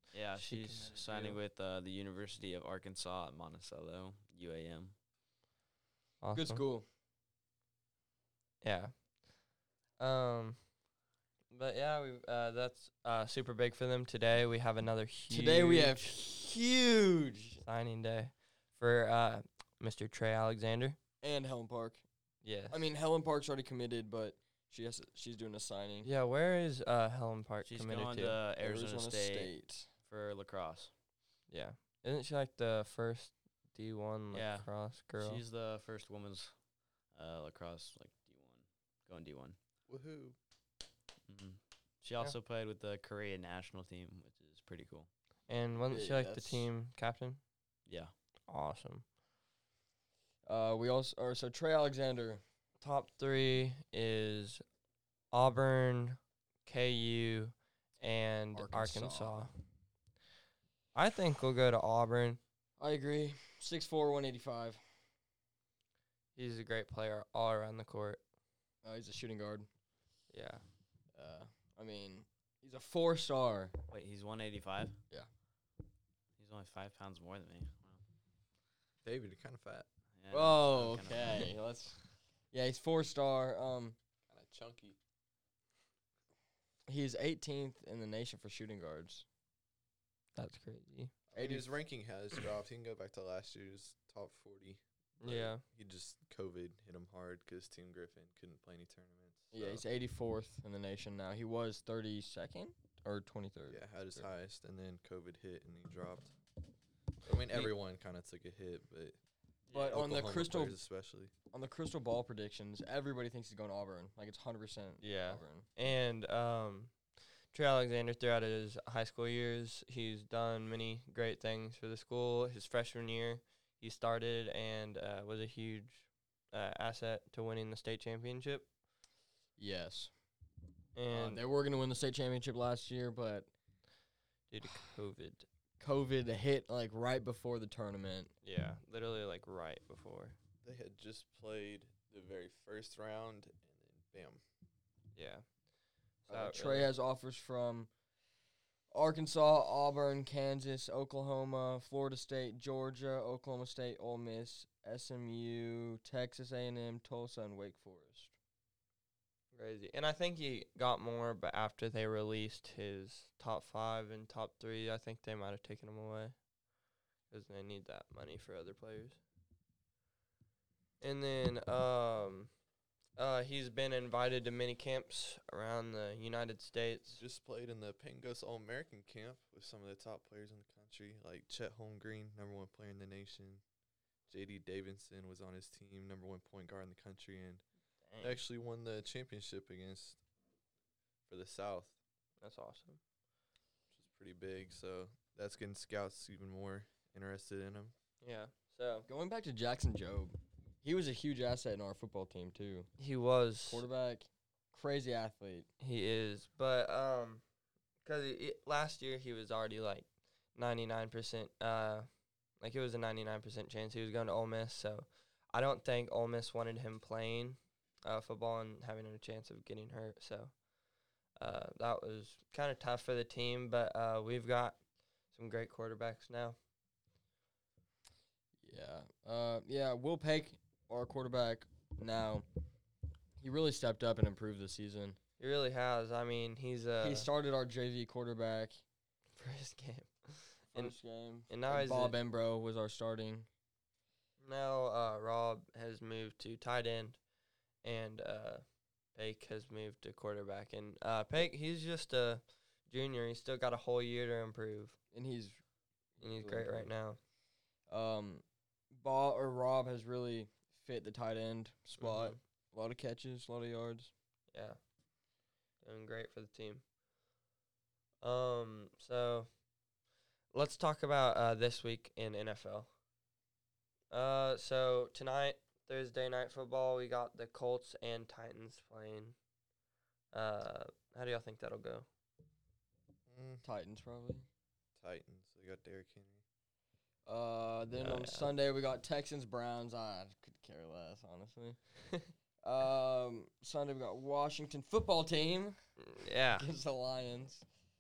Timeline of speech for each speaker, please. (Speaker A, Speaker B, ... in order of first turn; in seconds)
Speaker A: 0.1-5.0, 27.6-30.9, 34.3-36.6, 37.1-39.6, 41.3-45.1, 47.9-48.1, 73.9-75.0, 76.4-78.0, 80.2-81.5
Speaker B: 0.3-1.4, 6.2-6.6, 8.6-8.9, 10.0-10.6, 11.5-16.1, 17.6-21.0, 22.4-22.8, 26.0-28.4, 31.5-35.4, 45.5-47.4, 48.5-49.1, 52.8-54.6, 55.3-59.5, 61.0-62.4, 66.4-68.2, 70.3-70.6, 90.4-91.1, 95.2-95.6, 115.0-116.9, 117.5-128.7, 130.9-131.4, 134.5-135.5, 138.4-140.4, 145.1-145.4, 146.3-146.9, 159.5-166.4, 167.3-169.2, 171.0-172.5, 173.2-177.2, 188.1-188.4, 192.4-193.0, 198.2-199.1, 203.0-203.8, 205.8-207.4, 208.0-212.1, 212.6-220.5, 221.4-224.8, 225.3-226.6, 235.4-237.3, 239.3-241.0, 241.5-242.2, 244.4-247.2, 247.8-248.6, 249.2-255.0, 256.2-257.2, 262.1-262.4, 264.5-264.8, 265.8-266.8, 268.2-269.5, 270.5-272.9, 274.1-279.4, 280.3-282.1, 288.0-288.5, 296.0-296.7
Speaker C: 6.3-6.9, 15.3-17.6, 21.2-22.1, 22.7-26.1, 28.6-29.9, 45.9-46.7, 50.5-52.4, 58.5-59.4, 62.8-64.8, 68.8-69.7, 71.2-73.8, 80.3-84.0, 86.9-89.3, 91.3-91.8, 99.5-104.3, 109.7-110.8, 111.5-115.7, 129.6-130.1, 131.1-133.5, 135.8-138.3, 146.3-147.9, 148.9-158.3, 199.1-202.9, 203.7-205.7, 228.6-232.5, 233.4-235.2, 237.0-238.8, 240.7-243.5, 255.1-255.6, 256.2-256.9, 257.9-264.1, 283.6-284.5, 287.3-291.8, 292.6-295.8, 296.6-297.6
Speaker D: 39.9-40.4, 79.0-79.9, 84.3-85.0, 91.3-99.8, 103.7-106.3, 107.3-109.2, 109.7-111.3, 140.6-144.4, 177.1-183.6, 184.3-187.6, 188.2-190.2, 191.3-191.9, 193.9-197.9, 283.3-283.6, 285.0-286.4